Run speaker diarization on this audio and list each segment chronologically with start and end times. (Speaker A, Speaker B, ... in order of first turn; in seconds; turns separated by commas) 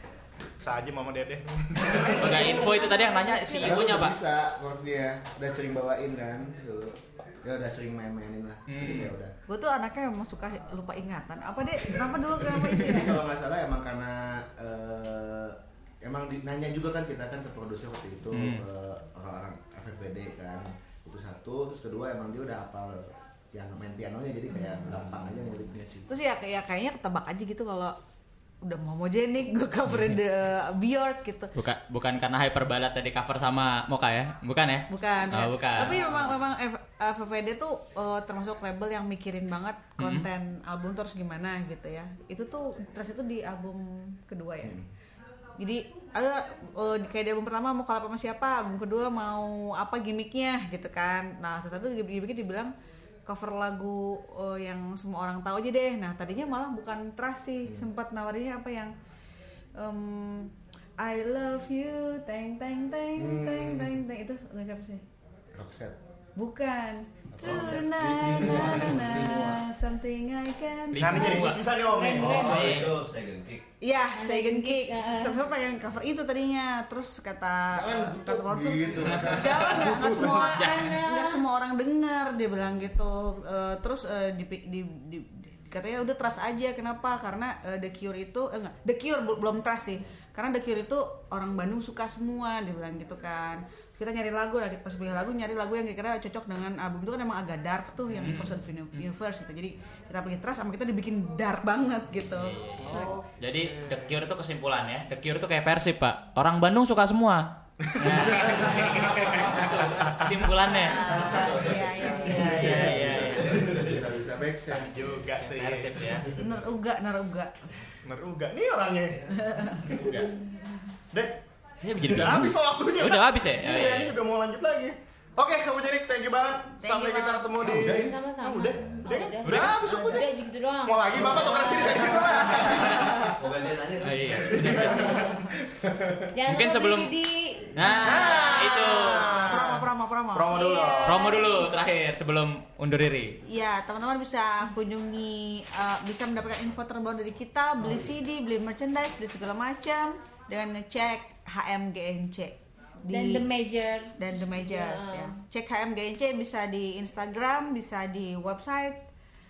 Speaker A: 0.6-2.5, Speaker B: 2.0-4.2, Speaker C: 2.6-3.3, Speaker D: 3.6-9.3, Speaker B: 8.7-9.1, Speaker E: 9.5-13.2, Speaker D: 12.7-26.1, Speaker B: 18.3-18.6, Speaker E: 26.1-27.9, Speaker E: 28.6-31.5, Speaker B: 29.9-30.2, Speaker B: 31.5-36.0, Speaker E: 34.9-44.8, Speaker D: 35.9-36.3, Speaker B: 40.0-40.3, Speaker D: 44.6-44.9, Speaker E: 45.6-52.7, Speaker E: 53.2-58.9, Speaker D: 57.6-57.9, Speaker E: 59.8-65.0, Speaker D: 63.1-64.0, Speaker D: 65.5-66.0, Speaker E: 66.3-71.5, Speaker D: 67.3-69.6, Speaker F: 67.4-69.5, Speaker B: 70.9-71.7, Speaker A: 71.0-72.8, Speaker C: 71.7-72.6, Speaker F: 72.1-73.6, Speaker B: 72.4-73.0, Speaker E: 73.8-103.2, Speaker C: 74.1-75.4, Speaker D: 77.7-79.7, Speaker B: 79.0-81.0, Speaker A: 79.8-80.2, Speaker C: 80.0-81.4, Speaker B: 98.1-99.1, Speaker B: 102.3-111.2, Speaker A: 102.8-104.2, Speaker A: 107.8-110.3, Speaker E: 110.6-112.9, Speaker D: 111.1-115.3, Speaker F: 111.1-114.1, Speaker B: 112.2-113.7, Speaker A: 114.7-116.2, Speaker B: 115.3-116.4, Speaker E: 116.3-117.7, Speaker A: 118.0-119.3, Speaker E: 119.3-120.0, Speaker B: 119.9-120.3, Speaker A: 121.1-121.4, Speaker B: 121.8-124.1, Speaker A: 122.1-130.3, Speaker E: 126.8-127.5, Speaker F: 127.7-128.1, Speaker C: 127.9-132.3, Speaker B: 129.4-129.9, Speaker A: 130.8-132.9, Speaker F: 131.2-135.3, Speaker B: 132.4-133.3, Speaker B: 134.0-135.3, Speaker D: 135.7-136.3, Speaker C: 136.3-138.6, Speaker B: 136.4-137.2, Speaker D: 137.7-138.0, Speaker B: 137.7-139.5, Speaker A: 138.0-141.4, Speaker E: 139.4-140.6, Speaker C: 140.5-141.7, Speaker B: 141.0-143.4, Speaker E: 143.4-153.5, Speaker C: 153.1-155.3, Speaker E: 154.2-159.0